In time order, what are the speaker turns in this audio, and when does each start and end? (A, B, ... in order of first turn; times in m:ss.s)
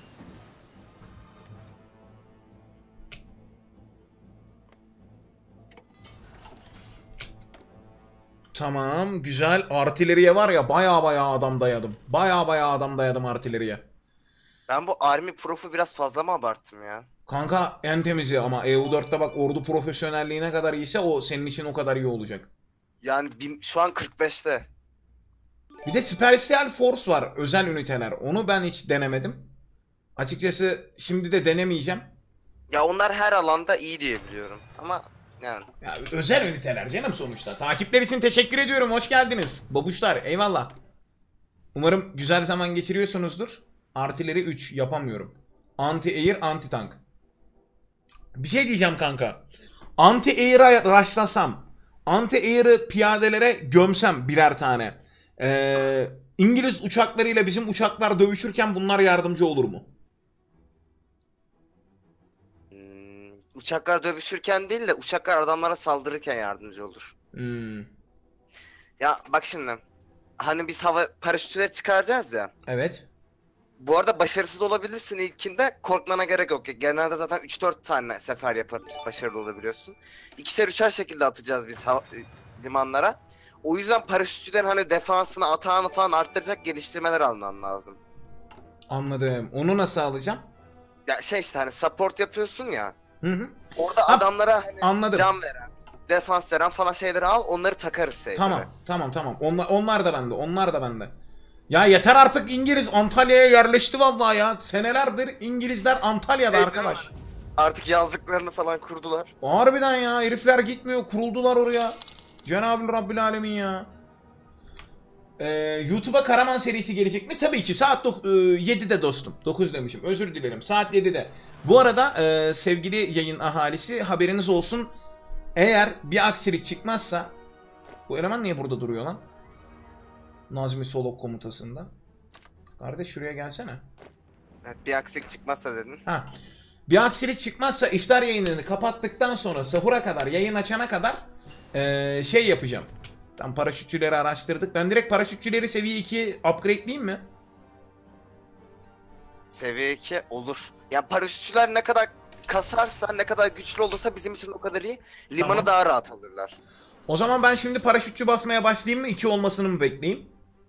0:08.5-0:13.8 A
0:14.7-0:17.1 B
0:17.3-0:22.5 A
0:23.0-0:24.7 B
0:25.8-0:29.5 A
0:30.2-0:32.1 A
0:32.7-0:35.7 B
0:35.8-0:40.8 A
0:41.7-0:47.0 A
0:48.4-0:49.4 A
0:50.0-0:59.9 A
1:02.7-1:07.1 B
1:07.3-1:07.9 A
1:09.0-1:09.8 B
1:10.4-1:12.5 B
1:12.7-1:13.1 A
1:13.8-1:28.0 B
1:28.9-1:30.4 A
1:31.1-1:33.0 B
1:33.2-1:34.3 A
1:33.8-1:38.7 B
1:34.8-1:35.3 A
1:38.4-1:41.1 A
1:41.7-1:47.1 A
1:46.5-1:49.3 B
1:49.4-1:53.9 A
1:55.4-2:04.9 A
2:05.6-2:07.3 A
2:08.1-2:09.2 A
2:10.5-2:11.9 A
2:12.8-2:13.8 A
2:14.6-2:16.0 B
2:16.9-2:27.2 A
2:29.5-2:36.6 B
2:35.4-2:35.7 A
2:37.1-2:40.3 A